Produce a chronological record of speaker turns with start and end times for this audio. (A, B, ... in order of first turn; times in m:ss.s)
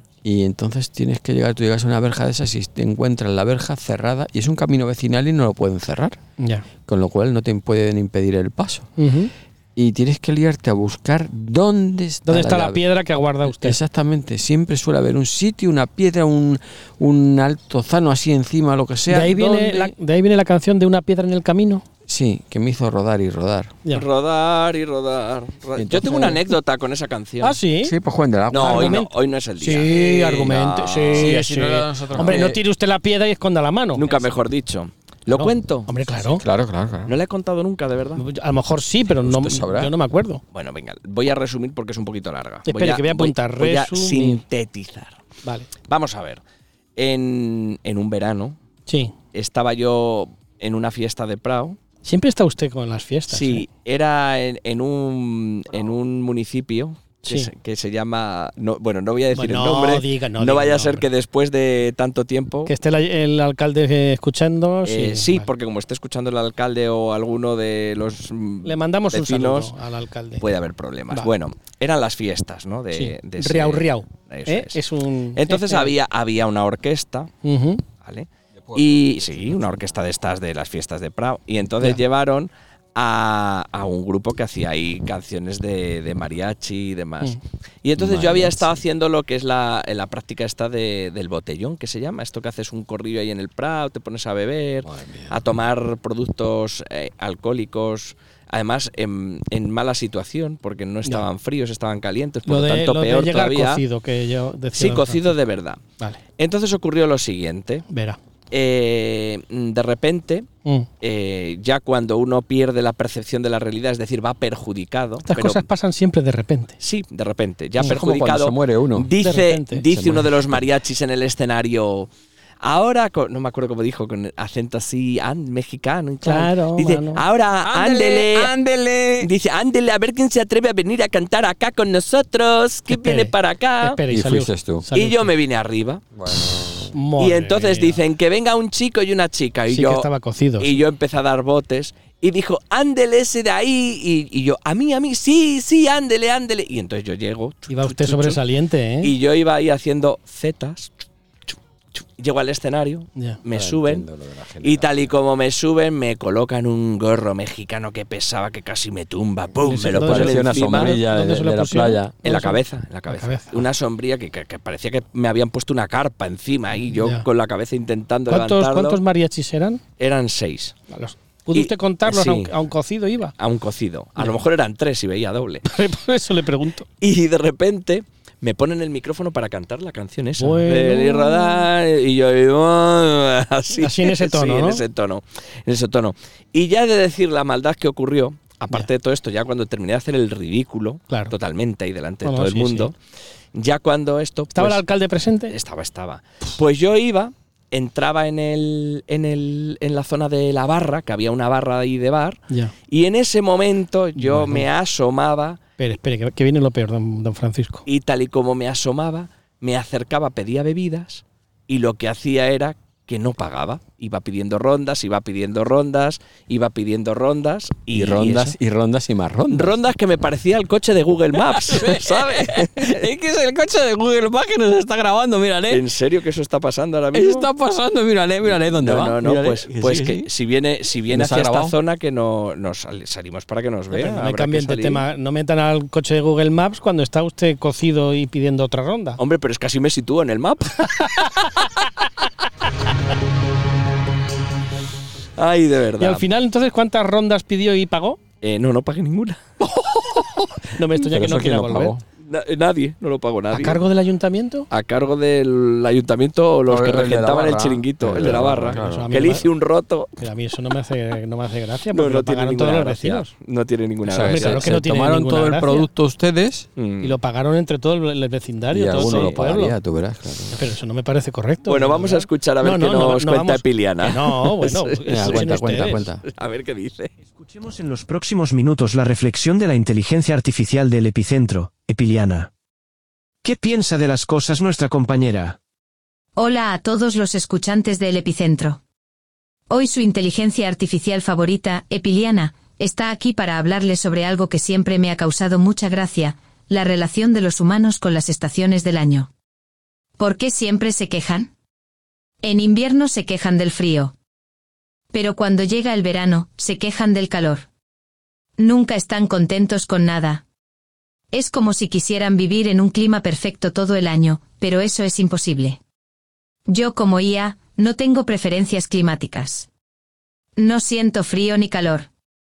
0:00.2-0:06.2 A
0:06.4-0:06.7 B
0:06.8-0:08.9 A
0:09.0-0:09.3 B
0:09.8-0:12.8 A
0:12.3-0:13.8 B
0:13.4-0:19.9 A
0:19.1-0:21.8 B
0:22.1-0:23.8 A
0:23.9-0:27.6 C
0:25.8-0:26.4 A
0:26.0-0:26.4 B
0:27.4-0:27.9 B
0:27.8-0:29.0 A
0:28.5-0:31.5 C
0:28.6-0:34.1 B
0:31.1-0:32.6 A
0:34.0-0:35.9 C
0:35.3-0:36.4 B
0:36.3-0:37.2 A
0:37.1-0:38.2 C
0:38.2-0:40.4 B
0:39.2-0:39.9 A
0:40.5-0:45.2 C
0:42.6-0:44.4 B
0:45.4-0:45.7 B
0:45.9-0:46.4 C
0:47.0-0:48.6 C
0:48.9-0:49.2 B
0:49.3-0:51.8 C
0:52.0-0:53.7 B
0:53.3-1:02.7 C
0:59.3-1:01.1 B
1:02.7-1:05.5 B
1:04.8-1:09.7 C
1:08.6-1:10.5 B
1:10.4-1:14.8 C
1:12.9-1:16.0 B
1:15.4-1:17.3 C
1:17.4-1:17.8 B
1:18.0-1:43.8 C
1:18.6-1:19.8 A
1:28.0-1:28.8 A
1:34.8-1:35.4 A
1:42.5-1:45.3 B
1:44.8-1:45.8 C
1:46.4-1:47.9 C
1:47.9-1:48.2 B
1:48.5-1:50.5 C
1:51.0-1:55.6 C
1:55.2-1:56.8 B
1:56.8-2:02.1 C
1:57.8-1:59.1 A
1:59.2-1:59.9 B
1:59.9-2:00.6 A
2:02.6-2:08.5 C
2:06.2-2:07.2 B
2:07.6-2:09.3 A
2:09.2-2:14.0 C
2:12.9-2:15.3 B
2:14.1-2:14.9 A
2:14.9-2:16.0 C
2:16.1-2:16.9 A
2:16.9-2:18.0 B
2:17.2-2:20.1 C
2:19.7-2:20.8 B
2:20.6-2:28.4 C
2:27.7-2:29.1 B
2:29.0-2:30.9 C
2:31.5-2:34.1 C
2:33.5-2:35.1 A
2:34.6-2:41.0 C
2:39.6-2:43.6 B
2:40.0-2:42.2 A
2:42.2-2:49.0 C
2:47.0-2:47.2 B
2:48.3-2:49.8 B
2:50.0-2:50.8 C
2:50.9-2:53.3 B
2:51.5-2:52.5 C
2:53.4-2:55.6 C
2:55.6-2:56.9 B
2:57.0-3:13.0 C
3:00.4-3:01.7 B
3:03.8-3:04.8 B
3:12.2-3:12.9 B
3:13.5-3:14.8 C
3:14.5-3:15.6 B
3:15.5-3:25.6 C
3:24.2-3:24.7 B
3:25.8-3:27.9 B
3:27.9-3:38.6 C
3:37.9-3:39.8 A
3:39.5-3:43.0 C
3:41.5-3:45.8 A
3:45.7-3:47.5 C
3:47.1-3:50.3 A
3:48.6-3:55.0 C
3:51.1-3:51.8 A
3:53.9-3:59.2 B
3:59.2-4:01.5 C
4:00.9-4:01.7 B
4:05.4-4:06.2 C
4:06.0-4:08.2 B
4:08.4-4:09.4 C
4:09.8-4:10.3 A
4:10.6-4:11.9 B
4:11.0-4:12.0 A
4:12.2-4:13.8 C
4:13.5-4:14.7 B
4:14.7-4:20.1 C
4:16.7-4:19.3 A
4:18.8-4:19.5 B
4:20.2-4:23.3 B
4:21.9-4:24.7 C
4:24.1-4:26.7 A
4:24.2-4:25.9 B
4:26.8-4:27.2 C
4:27.0-4:29.8 B
4:28.7-4:30.7 A
4:29.0-4:29.4 C
4:30.5-4:36.1 B
4:31.7-4:37.1 C
4:35.1-4:36.2 A
4:37.3-4:42.5 D
4:43.4-4:45.6 D
4:46.4-4:48.8 E
4:49.7-4:59.3 E
5:00.2-5:01.5 E
5:02.4-5:04.1 E
5:05.1-5:07.7 E
5:08.6-5:10.4 E
5:11.3-5:15.8 E
5:16.7-5:19.7 E
5:20.6-5:22.1 E